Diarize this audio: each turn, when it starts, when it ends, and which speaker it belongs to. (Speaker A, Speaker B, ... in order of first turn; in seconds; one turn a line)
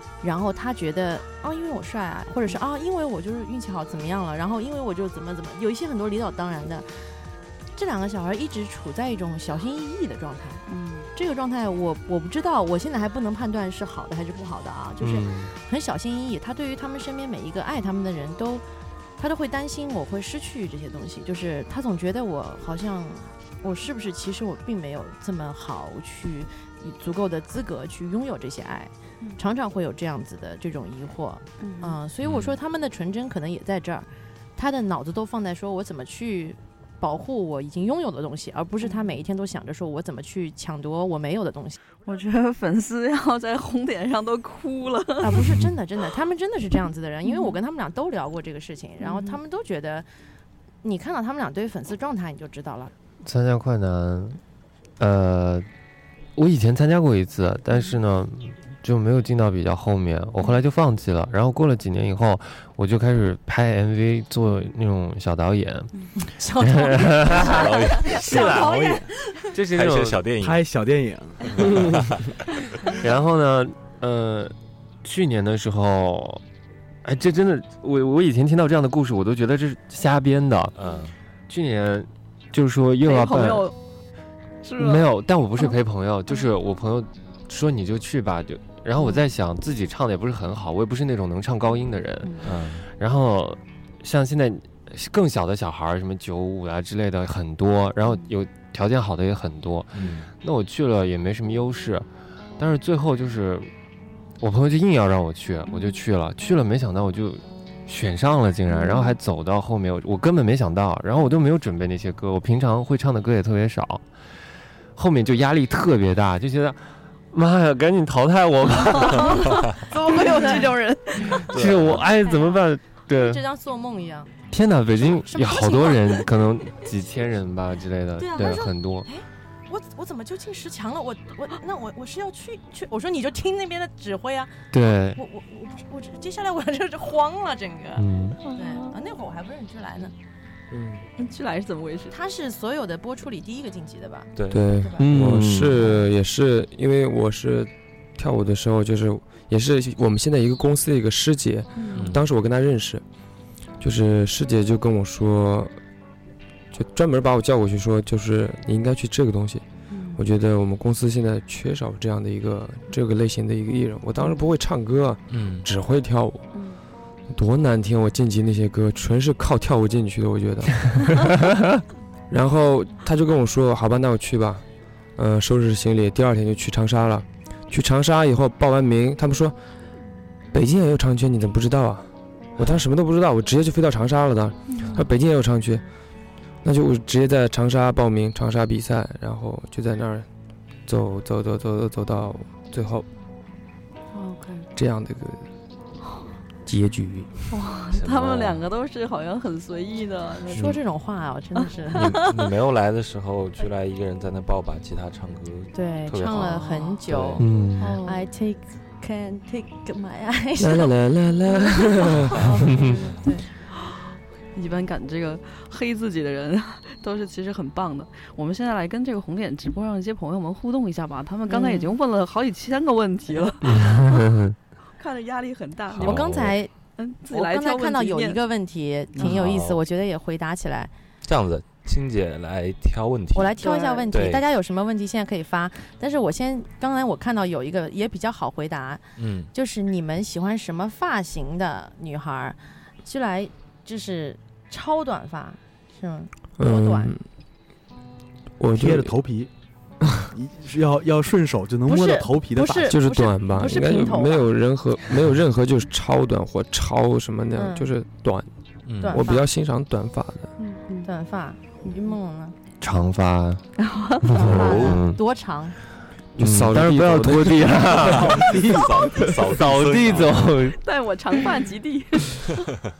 Speaker A: 0.2-18.6
Speaker B: 10.7-11.1
Speaker C: 15.0-15.5
Speaker A: 19.2-41.8
Speaker B: 31.6-32.0
Speaker D: 32.2-32.6
Speaker B: 38.8-39.1
Speaker B: 42.0-45.6
Speaker A: 45.2-50.0
Speaker B: 47.2-47.6
Speaker B: 49.0-49.4
Speaker A: 50.8-52.9
Speaker C: 53.2-54.4
Speaker C: 55.0-55.7
Speaker C: 56.4-65.9
Speaker A: 66.2-69.1
Speaker C: 66.6-67.7
Speaker D: 67.4-68.5
Speaker E: 68.0-69.1
Speaker C: 68.2-68.7
Speaker C: 69.5-70.2
Speaker D: 69.7-70.6
Speaker E: 70.4-71.9
Speaker D: 71.5-72.4
Speaker C: 72.9-76.4
Speaker C: 77.0-80.7
Speaker D: 80.7-81.1
Speaker C: 81.5-83.7
Speaker B: 83.0-83.7
Speaker B: 84.6-85.7
Speaker C: 84.8-102.1
Speaker B: 92.2-92.5
Speaker D: 92.4-92.9
Speaker D: 99.9-100.3
Speaker C: 102.6-103.7
Speaker C: 104.4-114.0
Speaker B: 108.7-109.1
Speaker C: 115.0-116.8
Speaker C: 117.3-119.7
Speaker B: 118.8-121.6
Speaker A: 119.9-120.7
Speaker C: 121.5-123.4
Speaker D: 121.5-122.0
Speaker A: 122.2-124.3
Speaker C: 124.5-129.1
Speaker A: 125.2-126.2
Speaker A: 128.2-134.6
Speaker C: 134.7-135.2
Speaker A: 135.2-140.1
Speaker C: 138.0-138.4
Speaker B: 138.4-139.0
Speaker B: 141.2-142.1
Speaker A: 142.1-145.4
Speaker D: 144.3-144.8
Speaker F: 144.5-153.0
Speaker C: 145.0-145.9
Speaker B: 151.8-152.1
Speaker D: 151.9-152.2
Speaker F: 153.8-155.7
Speaker F: 156.7-166.5
Speaker B: 159.9-160.2
Speaker B: 164.2-164.4
Speaker D: 165.3-165.7
Speaker B: 166.5-166.8
Speaker F: 167.3-171.2
Speaker F: 172.3-174.6
Speaker F: 175.2-179.6
Speaker F: 180.5-185.8
Speaker B: 184.7-185.1
Speaker F: 186.6-190.3
Speaker F: 190.8-193.1
Speaker B: 194.1-194.7
Speaker F: 194.8-195.4
Speaker F: 196.7-197.4
Speaker B: 197.5-200.8
Speaker D: 197.9-198.6
Speaker A: 200.5-202.2
Speaker B: 201.9-202.4
Speaker D: 202.1-207.5
Speaker A: 205.7-210.9
Speaker B: 206.7-207.0
Speaker C: 207.4-207.9
Speaker B: 207.8-208.3
Speaker F: 210.6-212.6
Speaker A: 212.0-213.5
Speaker B: 212.5-213.0
Speaker B: 214.5-224.3
Speaker A: 221.5-221.9
Speaker C: 223.6-224.5
Speaker B: 225.0-226.2
Speaker D: 225.9-226.6
Speaker A: 226.0-226.7
Speaker B: 227.0-228.4
Speaker A: 227.3-230.9
Speaker D: 229.2-229.8
Speaker D: 231.2-234.5
Speaker A: 233.3-247.2
Speaker B: 233.6-234.1
Speaker D: 239.2-239.5
Speaker F: 246.6-247.2
Speaker F: 248.6-249.1
Speaker E: 248.7-249.5
Speaker E: 250.3-252.9
Speaker A: 251.9-254.5
Speaker F: 252.9-258.5
Speaker A: 257.5-257.9
Speaker D: 258.9-259.2
Speaker F: 259.0-260.5
Speaker A: 259.0-259.5
Speaker B: 260.6-261.1
Speaker A: 261.0-262.5
Speaker C: 262.8-263.6
Speaker B: 263.8-264.6
Speaker C: 264.3-265.2
Speaker A: 264.3-265.8
Speaker D: 264.4-265.0
Speaker F: 266.4-268.3
Speaker C: 266.4-268.8
Speaker E: 268.1-268.9
Speaker D: 268.6-270.6
Speaker C: 269.5-270.8
Speaker B: 270.7-272.5